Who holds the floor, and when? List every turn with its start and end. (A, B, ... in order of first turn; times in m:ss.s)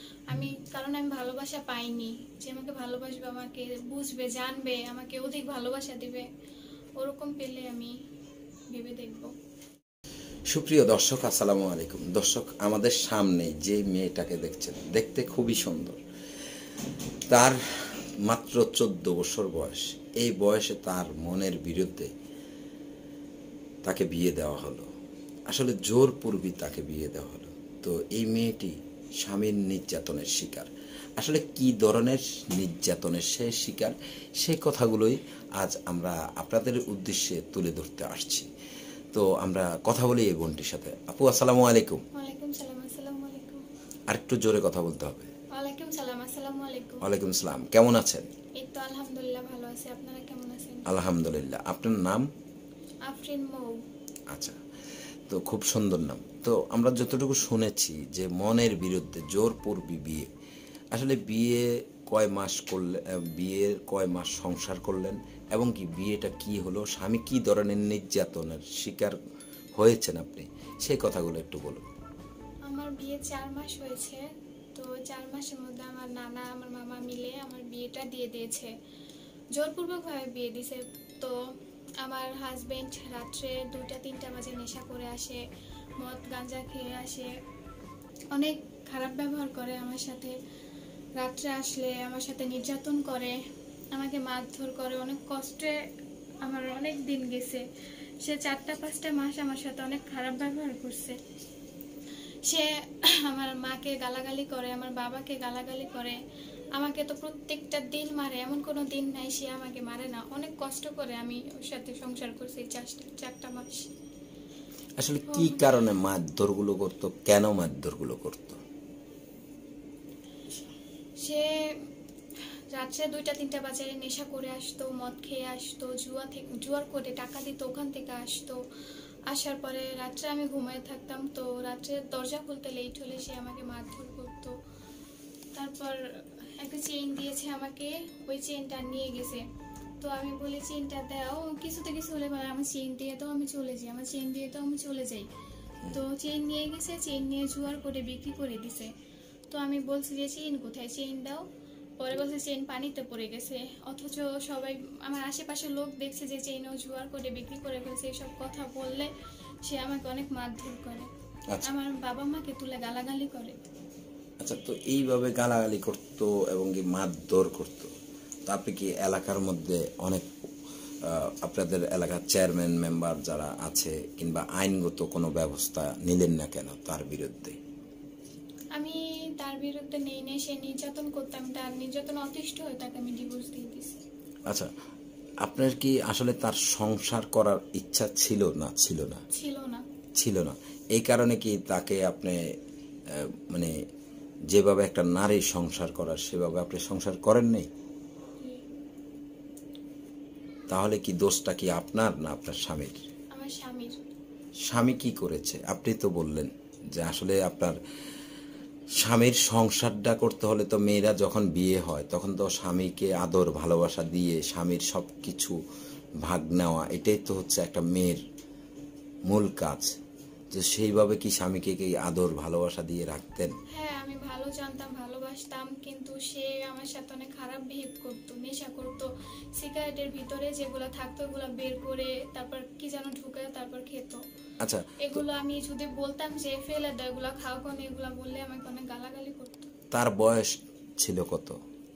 0:00.3-0:06.3 A
0:07.0-0:08.0 A
0:08.7-0:09.3 A
0:10.5-0:16.0 B
0:17.3-0:22.1 B
0:23.8-0:24.9 B
0:25.5-0:38.5 B
0:39.1-0:42.0 B
0:42.1-0:43.6 A
0:44.1-0:45.3 B
0:45.5-0:47.0 A
0:47.0-0:48.3 B
0:48.6-0:50.9 A
0:50.9-0:52.3 B
0:53.1-0:53.8 A
0:54.3-0:54.6 B
0:55.3-1:00.3 B
1:00.9-1:09.2 B
1:09.8-1:11.8 B
1:12.7-1:14.2 A
1:14.8-1:18.7 A
1:19.6-1:21.4 A
1:22.0-1:25.4 A
1:26.0-1:27.3 A
1:28.3-1:30.4 A
1:31.2-1:33.4 A
1:33.9-1:35.8 A
1:36.4-1:37.6 A
1:38.2-1:41.2 A
1:42.5-1:46.2 A
1:46.8-1:53.9 A
1:55.0-1:58.6 B
1:55.3-1:55.7 A
2:01.2-2:01.9 A
2:02.7-2:08.6 A
2:09.3-2:14.5 A
2:15.5-2:19.4 A
2:20.0-2:25.3 A
2:25.9-2:28.9 A
2:29.5-2:31.4 A
2:32.0-2:39.1 A
2:39.6-2:41.1 A
2:41.6-2:43.6 A
2:44.4-2:47.9 B
2:48.5-2:50.3 B
2:51.0-2:57.6 B
2:58.8-3:04.0 A
3:05.4-3:09.2 B
3:09.3-3:09.8 A
3:10.2-3:12.4 B
3:13.1-3:13.7 B
3:14.5-3:17.7 B
3:18.4-3:18.6 A
3:20.7-3:23.0 B
3:23.3-3:24.1 A
3:24.7-3:27.8 B
3:29.0-3:35.6 B
3:36.2-3:38.2 B
3:39.3-3:40.0 B
3:40.5-3:43.5 B
3:43.7-3:54.2 A
3:54.6-3:55.3 B
3:55.0-3:59.7 A
3:59.9-4:01.6 B